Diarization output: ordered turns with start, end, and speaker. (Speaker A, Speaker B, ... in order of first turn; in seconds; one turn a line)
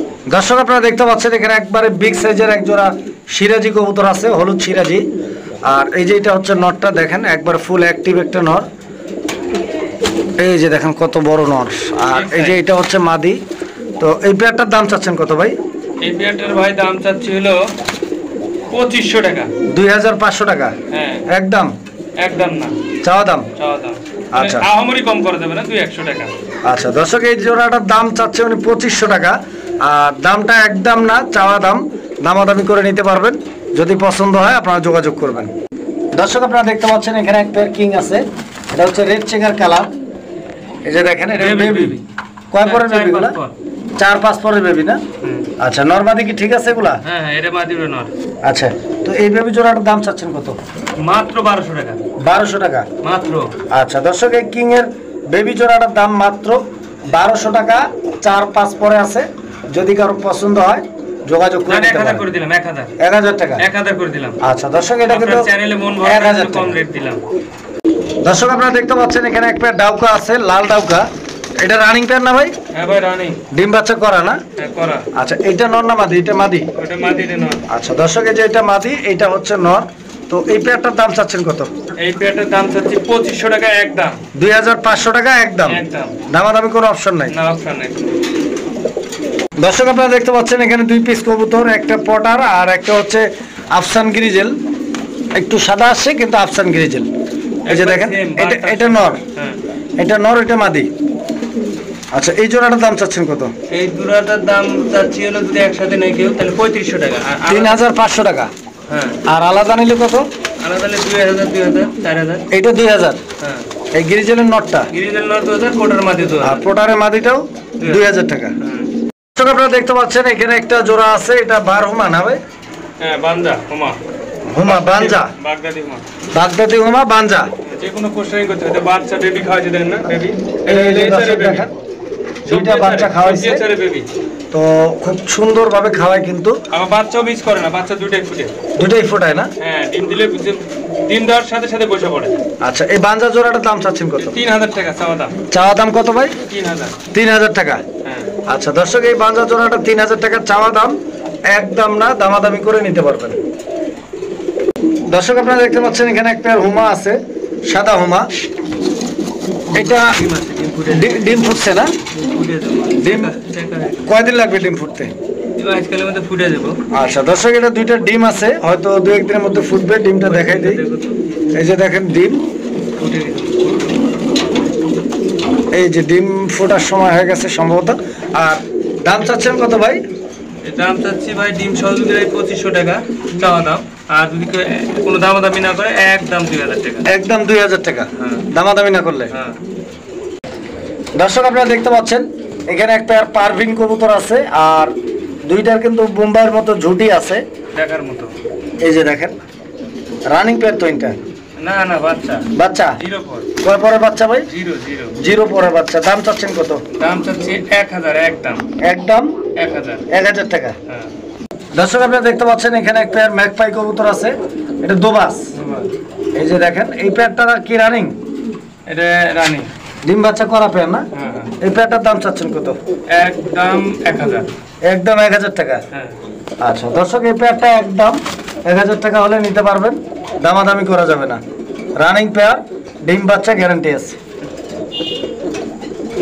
Speaker A: 0.3-5.0
Speaker A: 5.6-8.7
Speaker A: 10.4-13.4
Speaker B: 12.1-12.6
Speaker A: 14.0-15.5
Speaker B: 16.0-17.6
Speaker B: 18.7-19.5
Speaker A: 19.7-20.7
Speaker B: 20.9-21.2
Speaker A: 21.3-21.7
Speaker B: 22.2-22.8
Speaker A: 23.0-23.5
Speaker B: 23.6-26.3
Speaker A: 24.3-24.7
Speaker A: 26.6-35.5
Speaker A: 36.1-39.9
Speaker A: 40.8-42.0
Speaker B: 41.3-42.0
Speaker A: 42.5-43.4
Speaker B: 42.6-43.5
Speaker A: 44.0-45.0
Speaker B: 45.2-45.5
Speaker A: 45.6-47.0
Speaker B: 47.0-48.1
Speaker A: 48.4-50.6
Speaker B: 51.0-52.0
Speaker A: 52.2-52.9
Speaker B: 53.0-53.5
Speaker A: 53.7-62.2
Speaker B: 61.7-62.9
Speaker A: 63.0-63.6
Speaker B: 63.6-64.4
Speaker A: 64.4-65.5
Speaker B: 65.1-67.2
Speaker A: 66.0-66.7
Speaker A: 68.2-71.1
Speaker A: 71.6-72.5
Speaker B: 72.7-73.4
Speaker A: 73.5-74.4
Speaker B: 74.6-75.0
Speaker A: 75.1-76.7
Speaker B: 76.8-77.6
Speaker A: 77.7-81.7
Speaker B: 82.0-84.2
Speaker A: 84.3-87.3
Speaker B: 85.6-86.1
Speaker B: 87.3-88.2
Speaker A: 89.6-94.5
Speaker A: 95.4-97.1
Speaker B: 97.7-99.6
Speaker A: 97.7-99.2
Speaker A: 100.0-100.9
Speaker A: 102.1-103.5
Speaker B: 103.7-107.8
Speaker A: 107.5-108.5
Speaker B: 108.9-109.2
Speaker A: 109.3-110.3
Speaker B: 110.6-112.5
Speaker A: 112.5-113.2
Speaker B: 113.4-113.7
Speaker A: 113.9-114.9
Speaker B: 114.9-116.7
Speaker A: 116.4-118.5
Speaker B: 117.8-118.9
Speaker A: 119.3-122.4
Speaker B: 123.0-124.0
Speaker A: 124.5-125.3
Speaker B: 124.6-126.0
Speaker A: 126.3-127.5
Speaker B: 127.6-131.7
Speaker A: 130.7-131.7
Speaker B: 132.4-134.1
Speaker A: 132.5-133.6
Speaker A: 134.5-136.6
Speaker B: 136.7-138.5
Speaker A: 138.8-139.5
Speaker B: 139.6-142.3
Speaker A: 142.6-144.4
Speaker B: 144.2-145.3
Speaker A: 145.5-146.4
Speaker B: 146.4-147.0
Speaker A: 147.1-147.8
Speaker B: 148.0-148.3
Speaker A: 148.5-150.9
Speaker A: 151.5-153.3
Speaker A: 155.1-158.3
Speaker B: 159.7-161.6
Speaker A: 159.7-160.2
Speaker A: 160.9-161.9
Speaker B: 162.1-164.1
Speaker A: 163.0-163.3
Speaker A: 164.1-165.1
Speaker B: 165.6-166.8
Speaker A: 166.9-170.8
Speaker B: 170.2-171.2
Speaker A: 171.5-172.4
Speaker B: 173.0-173.9
Speaker A: 175.7-180.0
Speaker B: 180.6-187.1
Speaker A: 187.1-189.3
Speaker B: 188.2-188.5
Speaker B: 189.3-189.6
Speaker A: 191.2-194.9
Speaker A: 195.4-197.4
Speaker B: 197.7-198.3
Speaker A: 198.8-199.3
Speaker A: 200.3-201.2
Speaker B: 201.6-203.5
Speaker A: 202.5-203.0
Speaker A: 203.6-204.5
Speaker B: 204.5-205.1
Speaker A: 205.2-206.8
Speaker B: 207.0-208.6
Speaker A: 208.8-209.3
Speaker B: 209.6-210.1
Speaker A: 210.1-210.8
Speaker A: 211.7-215.5
Speaker B: 215.5-215.9
Speaker A: 216.3-218.1
Speaker B: 218.9-219.7
Speaker A: 220.0-221.1
Speaker B: 221.1-221.5
Speaker A: 221.6-222.8
Speaker B: 223.1-224.5
Speaker A: 224.8-225.8
Speaker A: 226.6-231.4
Speaker A: 232.0-234.2